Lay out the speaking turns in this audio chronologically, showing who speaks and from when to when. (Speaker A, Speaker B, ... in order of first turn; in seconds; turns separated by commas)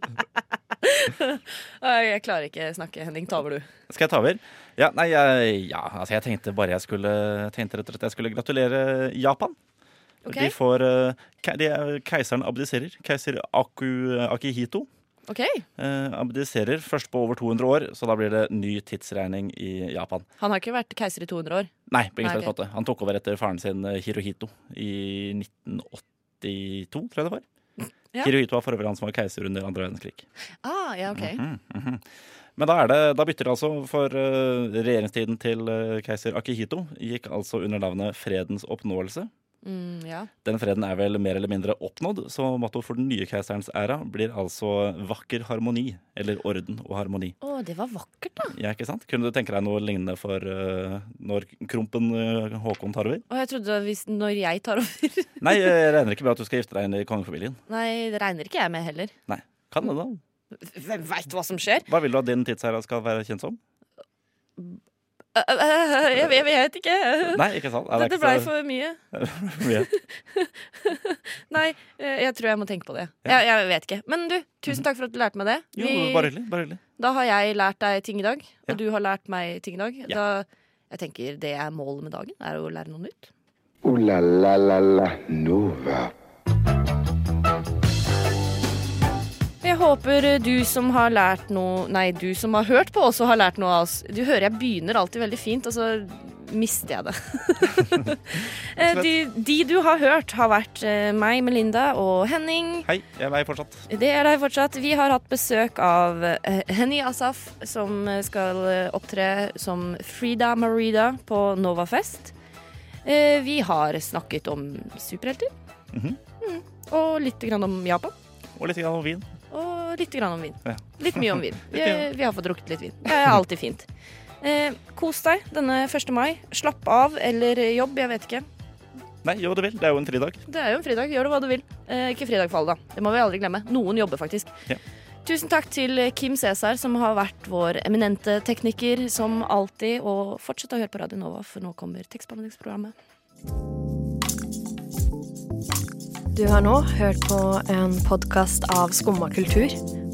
Speaker A: 0.8-3.7, Speaker B: 3.9-9.6, Speaker A: 10.2-10.5, Speaker B: 10.3-14.9, Speaker A: 15.3-15.6, Speaker B: 15.8-20.2, Speaker A: 20.4-22.5, Speaker B: 21.9-27.4, Speaker B: 28.2-30.2, Speaker A: 30.6-31.4, Speaker B: 31.1-32.0, Speaker B: 32.6-39.3, Speaker A: 39.6-40.3, Speaker B: 40.4-47.4, Speaker A: 47.4-48.5, Speaker B: 48.5-53.2, Speaker A: 53.3-55.6, Speaker B: 55.4-57.6, Speaker A: 57.7-59.1, Speaker B: 59.3-60.2, Speaker A: 60.6-61.9, Speaker B: 61.9-63.6, Speaker A: 65.3-69.0, Speaker B: 67.2-68.5, Speaker B: 69.1-69.9, Speaker A: 69.8-76.3, Speaker B: 75.7-76.8, Speaker A: 77.0-83.3, Speaker C: 83.8-86.1, Speaker A: 89.6-102.9, Speaker B: 98.8-99.1, Speaker B: 102.8-103.8, Speaker A: 103.9-112.3, Speaker A: 113.0-115.5, Speaker B: 115.9-116.2, Speaker A: 116.4-118.1, Speaker B: 118.6-119.3, Speaker A: 119.5-123.9, Speaker B: 120.7-122.0, Speaker A: 124.4-128.4, Speaker B: 129.2-130.4, Speaker A: 130.5-134.5, Speaker A: 135.2-142.9, Speaker D: 146.3-149.8